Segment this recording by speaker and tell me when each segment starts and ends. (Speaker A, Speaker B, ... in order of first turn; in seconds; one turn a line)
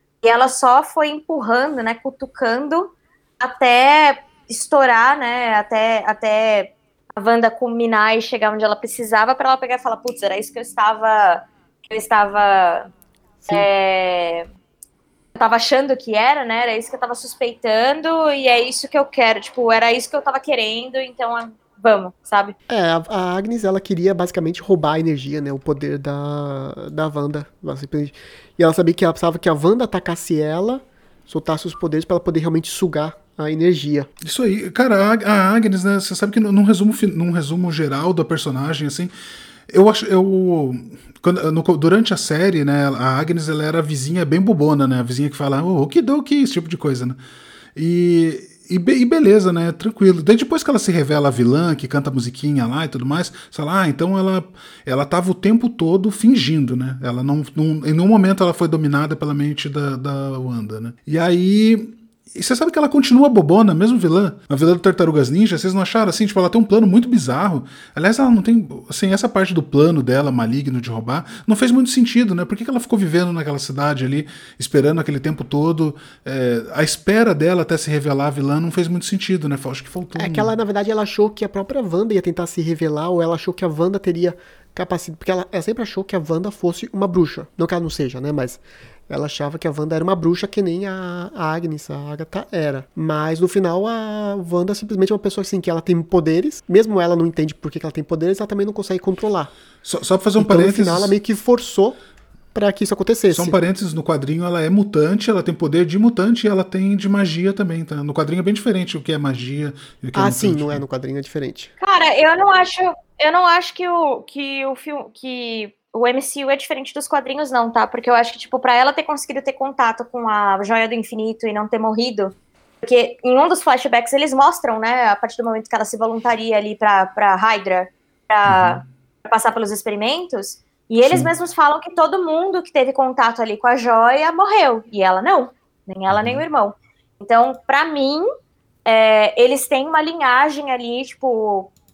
Speaker A: 0.2-12.9
Speaker A: 13.5-14.5
Speaker A: 15.3-22.6
Speaker B: 22.7-34.1
Speaker C: 34.2-39.1
Speaker C: 39.7-47.2
Speaker C: 47.8-80.5
Speaker B: 80.2-99.5
Speaker C: 99.8-101.2
Speaker B: 100.4-102.0
Speaker B: 102.5-103.6
Speaker C: 103.3-110.8
Speaker B: 110.2-111.7
Speaker A: 111.8-138.3
Speaker C: 128.5-128.8
Speaker C: 131.0-131.3
Speaker C: 136.1-136.4
Speaker A: 138.8-141.7